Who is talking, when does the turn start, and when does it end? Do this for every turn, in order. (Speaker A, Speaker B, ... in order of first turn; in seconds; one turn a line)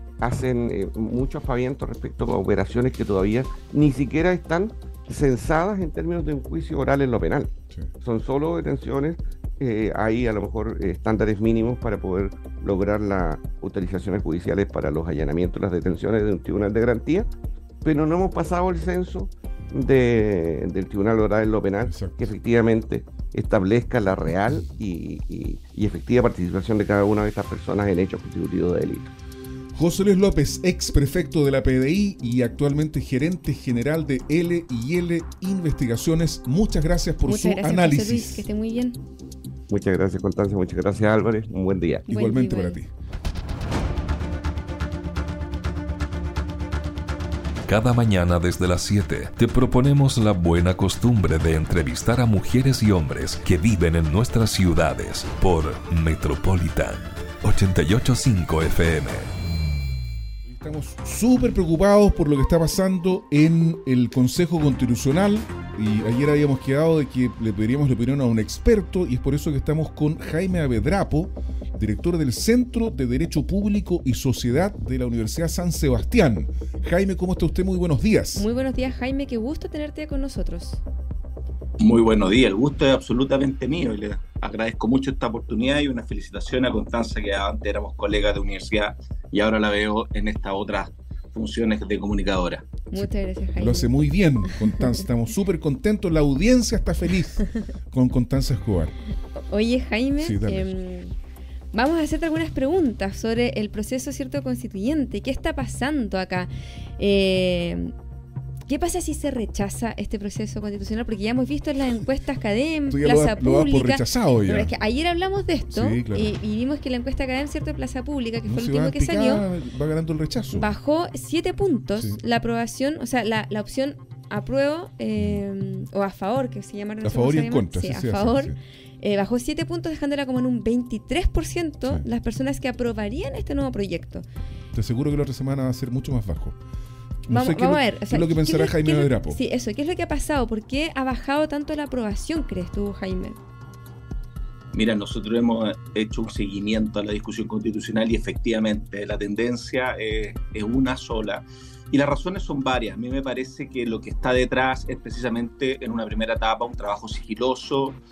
Speaker A: 0.2-17.3
Speaker A: 17.8-29.1
Speaker B: 21.9-22.3
Speaker B: 29.7-38.5
Speaker C: 37.3-39.0
Speaker A: 39.7-42.0
Speaker C: 42.1-42.8
Speaker B: 42.1-42.9
Speaker D: 47.7-59.3
Speaker B: 60.5-78.5
Speaker C: 78.4-80.8
Speaker E: 81.8-92.7
Speaker C: 92.9-93.9
Speaker B: 93.0-98.9
Speaker C: 99.5-101.2
Speaker B: 100.2-100.7
Speaker C: 101.7-107.9
Speaker C: 108.7-119.4
Speaker B: 112.9-114.7
Speaker B: 115.7-116.3
Speaker B: 118.5-120.7
Speaker C: 120.5-134.3
Speaker B: 125.2-125.4
Speaker B: 127.0-128.6
Speaker B: 134.7-136.6
Speaker B: 137.3-139.4
Speaker C: 137.3-143.4
Speaker E: 144.7-158.0